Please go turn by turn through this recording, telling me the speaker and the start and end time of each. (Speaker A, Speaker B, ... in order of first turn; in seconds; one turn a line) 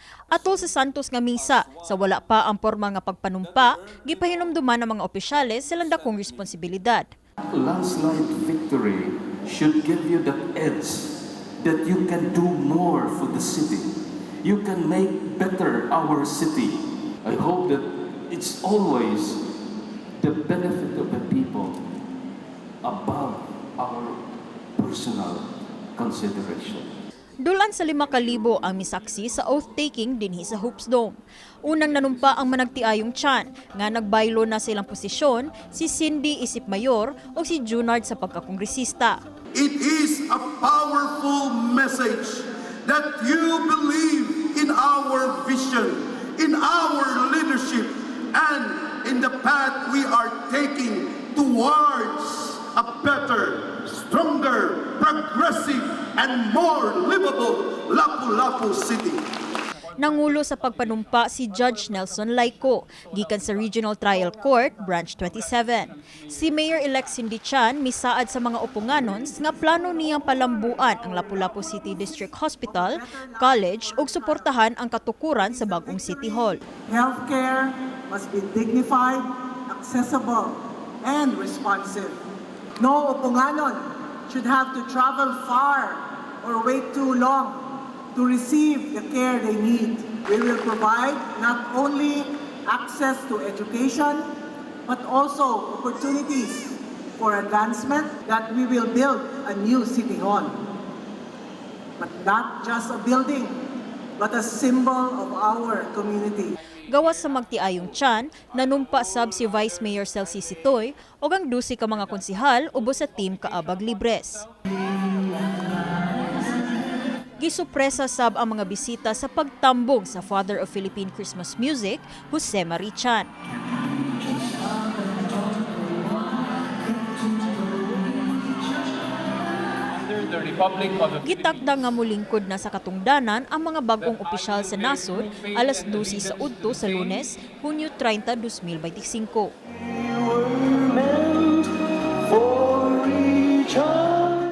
Speaker A: 0.3-7.1
Speaker B: 7.5-19.4
Speaker B: 20.2-21.8
Speaker B: 22.8-24.2
Speaker B: 24.8-26.9
Speaker A: 27.4-39.2
Speaker C: 39.5-59.2
Speaker A: 60.0-76.6
Speaker D: 63.0-63.5
Speaker E: 71.1-74.5
Speaker E: 75.4-82.2
Speaker E: 82.8-94.3
Speaker E: 94.9-100.6
Speaker E: 102.0-103.6
Speaker E: 104.2-106.6
Speaker A: 106.9-114.5
Speaker A: 117.4-123.3
Speaker D: 129.9-131.4
Speaker A: 131.2-139.5
Speaker D: 134.1-136.9
Speaker B: 139.8-141.7
Speaker B: 142.4-144.1